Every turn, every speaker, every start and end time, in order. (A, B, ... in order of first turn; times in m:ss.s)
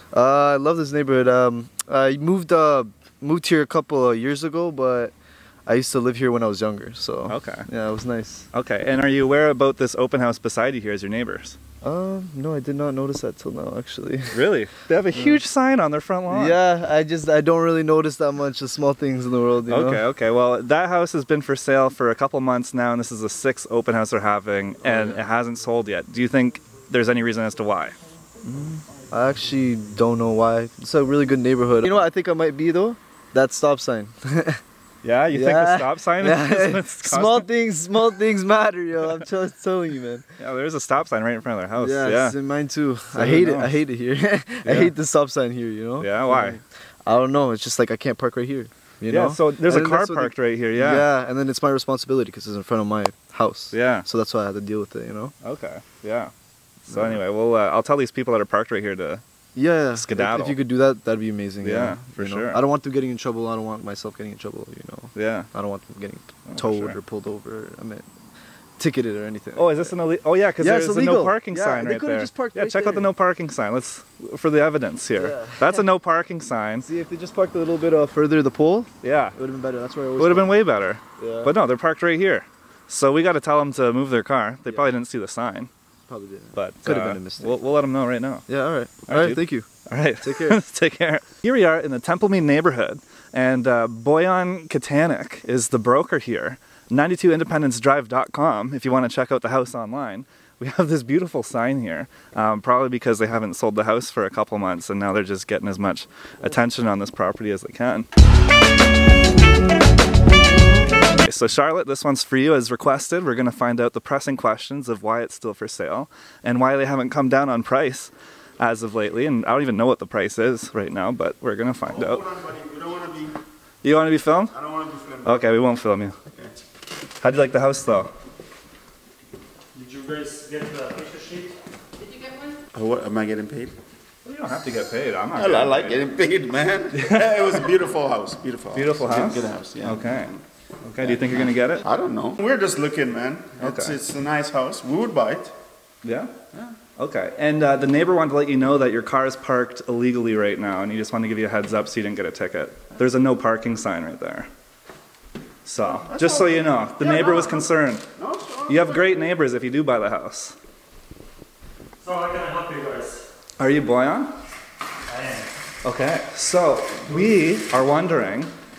0:00.1-0:05.1 A
0:05.6-0:08.5 A
0:07.3-0:07.6 B
0:08.5-0:11.6 B
0:11.8-0:14.5 A
0:14.3-0:16.6 B
0:15.1-0:15.4 A
0:16.3-0:20.1 A
0:19.6-0:28.0 B
0:24.8-0:25.2 A
0:28.4-0:34.6 A
0:35.0-0:37.5 B
0:35.3-0:40.2 A
0:40.4-0:42.4 B
0:41.8-0:55.3 A
0:43.1-0:43.8 B
0:44.6-0:44.9 B
0:46.0-0:46.6 B
0:49.1-0:51.1 B
0:53.7-0:54.0 B
0:55.4-0:56.3 B
0:56.8-0:59.2 B
0:56.9-0:57.2 A
0:59.5-1:08.1 A
0:59.9-1:00.6 B
1:01.6-1:02.6 B
1:05.1-1:05.5 B
1:06.5-1:07.0 B
1:08.8-1:10.0 A
1:09.5-1:16.8 B
1:10.6-1:13.1 A
1:15.1-1:15.9 A
1:16.8-1:20.6 A
1:19.0-1:19.3 B
1:20.2-1:25.7 B
1:21.2-1:21.5 A
1:24.7-1:24.9 A
1:26.1-1:27.6 A
1:26.6-1:28.4 B
1:28.5-1:29.7 A
1:29.1-1:48.1 B
1:30.2-1:30.6 A
1:51.2-2:02.3 B
2:01.9-2:03.3 C
2:03.8-2:04.6 B
2:04.5-2:05.4 C
2:05.2-2:06.2 B
2:07.2-2:08.1 B
2:09.7-2:11.6 D
2:12.7-2:13.8 C
2:14.2-2:16.0 B
2:15.3-2:20.4 C
2:17.0-2:17.2 B
2:18.7-2:21.9 B
2:21.0-2:25.5 C
2:23.6-2:24.0 B
2:26.0-2:26.3 B
2:27.0-2:34.5 B
2:35.6-2:38.0 B
2:36.1-2:39.2 C
2:38.6-2:40.5 B
2:42.0-2:43.3 D
2:43.6-2:44.3 B
2:45.1-2:45.5 D
2:45.8-2:48.5 B
2:47.1-2:47.4 D